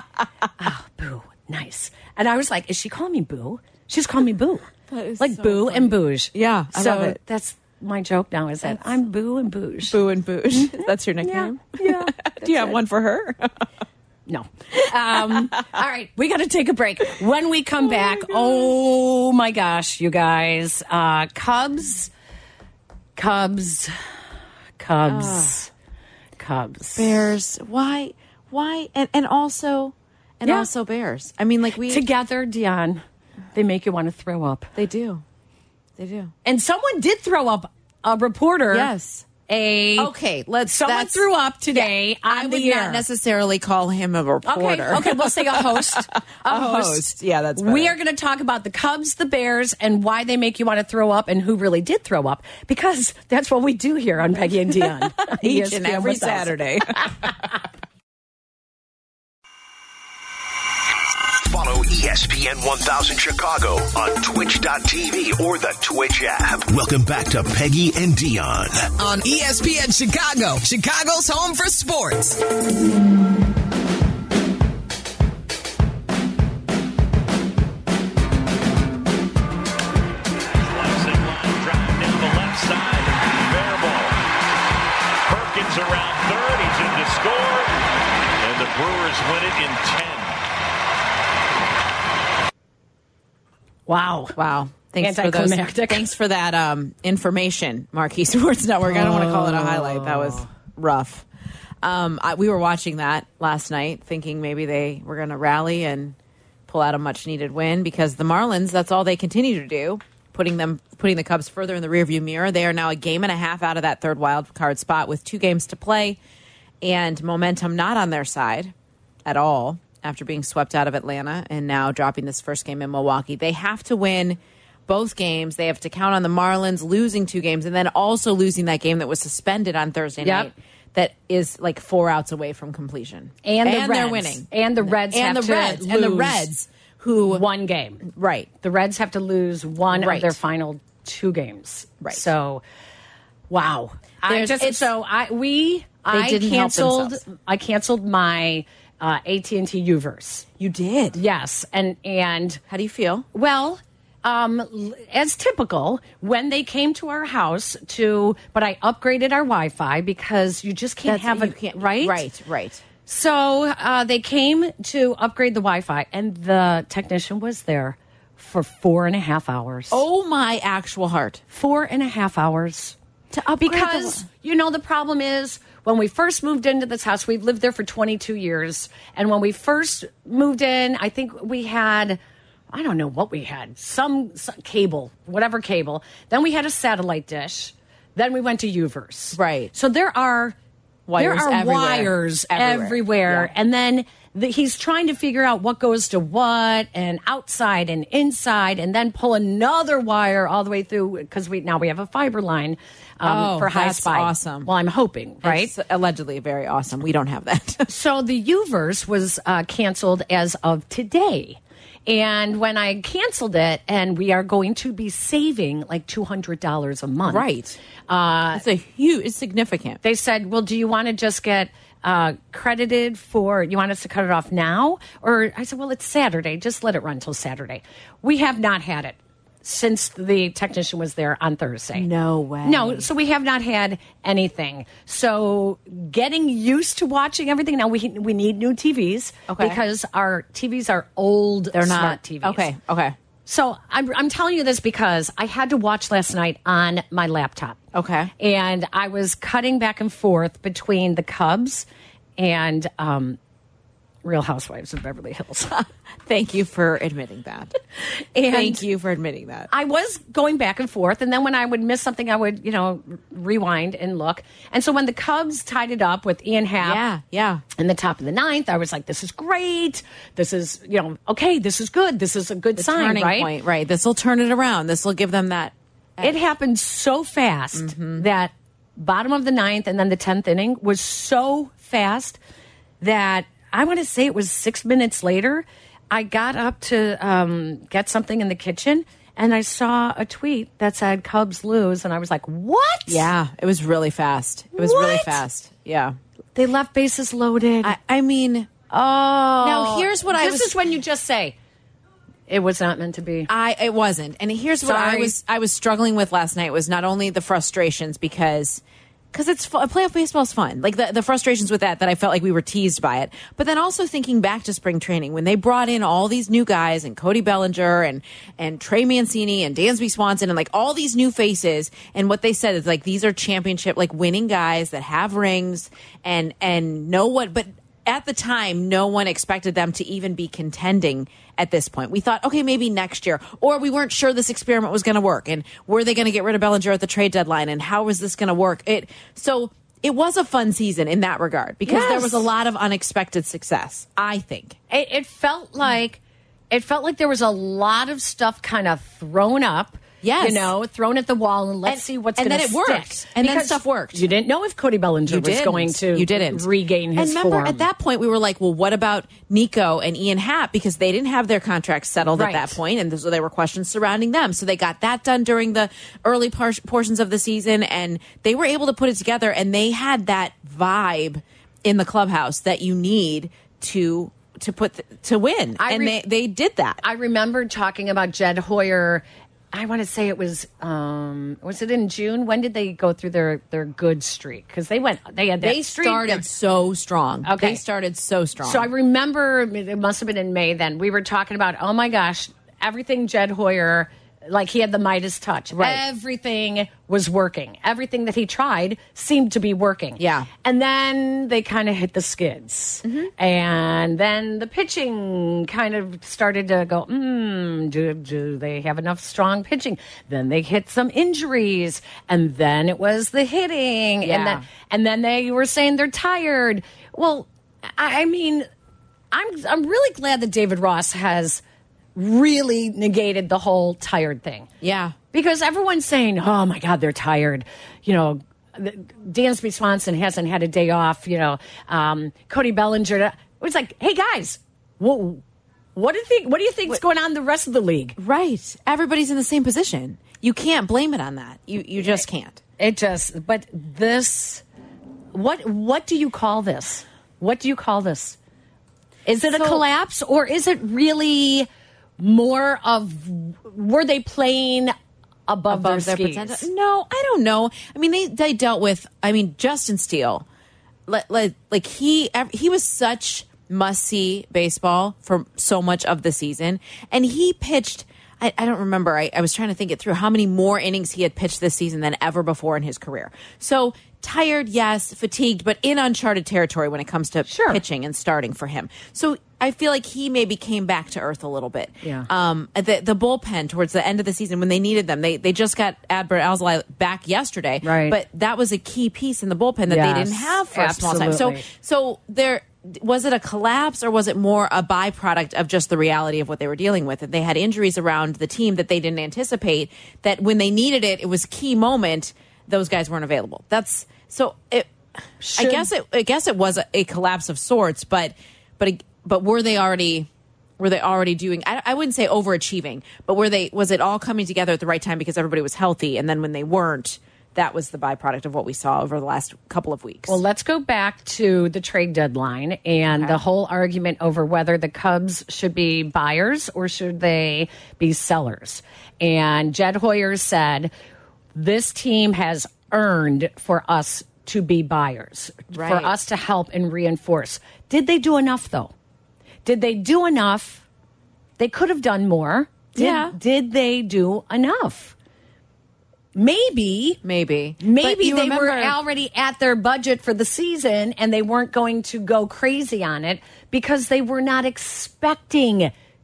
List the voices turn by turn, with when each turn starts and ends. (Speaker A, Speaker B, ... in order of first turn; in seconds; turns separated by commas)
Speaker A: 0.6-4.7, Speaker B: 4.9-7.2, Speaker A: 5.2-10.0, Speaker B: 9.9-13.6, Speaker A: 10.5-12.8, Speaker A: 14.3-22.1, Speaker B: 15.1-15.6, Speaker B: 17.8-18.7, Speaker A: 23.1-23.9, Speaker A: 24.8-25.7, Speaker B: 25.1-25.6, Speaker A: 26.4-27.3, Speaker B: 26.9-32.0, Speaker A: 31.9-33.0, Speaker A: 33.5-34.7, Speaker B: 34.7-35.2, Speaker B: 36.0-36.3, Speaker A: 36.4-38.9, Speaker B: 38.7-39.3, Speaker A: 39.5-40.1, Speaker B: 40.0-48.0, Speaker A: 40.6-43.0, Speaker A: 44.4-56.5, Speaker B: 55.2-57.3, Speaker C: 61.4-68.9, Speaker D: 69.0-72.4, Speaker E: 80.5-84.2, Speaker E: 85.2-87.8, Speaker E: 88.4-90.4, Speaker A: 93.9-94.3, Speaker B: 94.3-101.2, Speaker A: 95.0-96.1, Speaker A: 98.9-100.5, Speaker B: 101.8-106.2, Speaker B: 106.7-116.2, Speaker B: 116.8-118.7, Speaker B: 119.2-137.4, Speaker A: 130.2-130.5, Speaker A: 133.4-136.5, Speaker A: 137.3-138.1, Speaker B: 138.0-138.5, Speaker A: 138.6-142.6, Speaker B: 139.9-140.4, Speaker B: 142.0-142.2, Speaker A: 143.5-152.6, Speaker B: 144.2-144.9, Speaker B: 146.1-147.2, Speaker B: 150.8-151.2, Speaker B: 152.7-153.3, Speaker A: 153.3-162.2, Speaker B: 161.0-162.8, Speaker A: 163.0-170.0, Speaker B: 169.9-171.4, Speaker A: 171.5-172.9, Speaker B: 173.3-174.2, Speaker A: 173.6-182.2, Speaker A: 182.7-190.6, Speaker B: 189.3-189.7, Speaker B: 191.1-193.5, Speaker A: 191.2-205.7, Speaker B: 203.2-204.7, Speaker B: 205.4-207.9, Speaker A: 207.9-217.4, Speaker B: 217.2-217.8, Speaker A: 218.1-218.6, Speaker B: 218.5-220.0, Speaker A: 220.0-232.1, Speaker B: 231.9-233.1, Speaker A: 232.6-242.7, Speaker B: 239.5-239.8, Speaker B: 241.7-243.2, Speaker A: 243.4-247.8, Speaker B: 247.9-248.3, Speaker A: 248.4-251.8, Speaker A: 252.4-253.4, Speaker A: 254.2-255.8, Speaker B: 255.8-257.8, Speaker A: 258.3-258.8, Speaker B: 258.4-259.7, Speaker A: 259.7-267.0, Speaker B: 266.8-267.6, Speaker A: 267.8-273.5, Speaker B: 272.8-276.4, Speaker A: 276.2-282.4, Speaker B: 277.7-278.2, Speaker A: 283.0-293.3, Speaker B: 293.1-296.2, Speaker A: 294.7-295.4, Speaker A: 296.6-297.9, Speaker B: 297.8-298.7, Speaker A: 298.9-301.6, Speaker B: 299.6-300.8, Speaker A: 302.5-303.5, Speaker B: 303.5-308.8, Speaker A: 304.8-305.4, Speaker B: 309.3-344.8, Speaker A: 341.9-342.5, Speaker A: 344.9-346.2, Speaker A: 346.7-357.8, Speaker B: 350.2-350.7, Speaker B: 351.8-354.2, Speaker B: 355.2-377.0, Speaker A: 362.3-362.8, Speaker A: 375.8-376.2, Speaker A: 377.0-386.4, Speaker B: 385.6-388.9, Speaker A: 387.4-387.8, Speaker A: 388.6-418.7, Speaker B: 395.7-396.0, Speaker B: 400.2-400.5, Speaker B: 403.0-403.3, Speaker B: 414.2-414.6, Speaker A: 419.3-421.6, Speaker A: 422.1-424.7, Speaker B: 424.8-425.1, Speaker A: 425.3-435.4, Speaker A: 435.9-438.2, Speaker B: 438.2-442.6, Speaker A: 442.8-444.6, Speaker A: 445.3-448.4, Speaker A: 449.2-451.7, Speaker B: 449.4-449.8, Speaker A: 452.2-454.9, Speaker A: 455.5-456.7, Speaker B: 455.7-460.4, Speaker B: 461.1-504.9, Speaker A: 477.5-477.8, Speaker A: 487.8-488.2, Speaker A: 489.9-491.6, Speaker A: 505.4-505.9, Speaker B: 505.5-520.4, Speaker A: 520.3-530.9, Speaker B: 523.1-523.4, Speaker A: 531.5-538.9, Speaker B: 535.7-536.1, Speaker A: 539.6-540.8, Speaker A: 541.6-545.1, Speaker B: 542.9-543.3, Speaker A: 546.3-547.2, Speaker B: 547.2-549.0, Speaker A: 547.8-555.9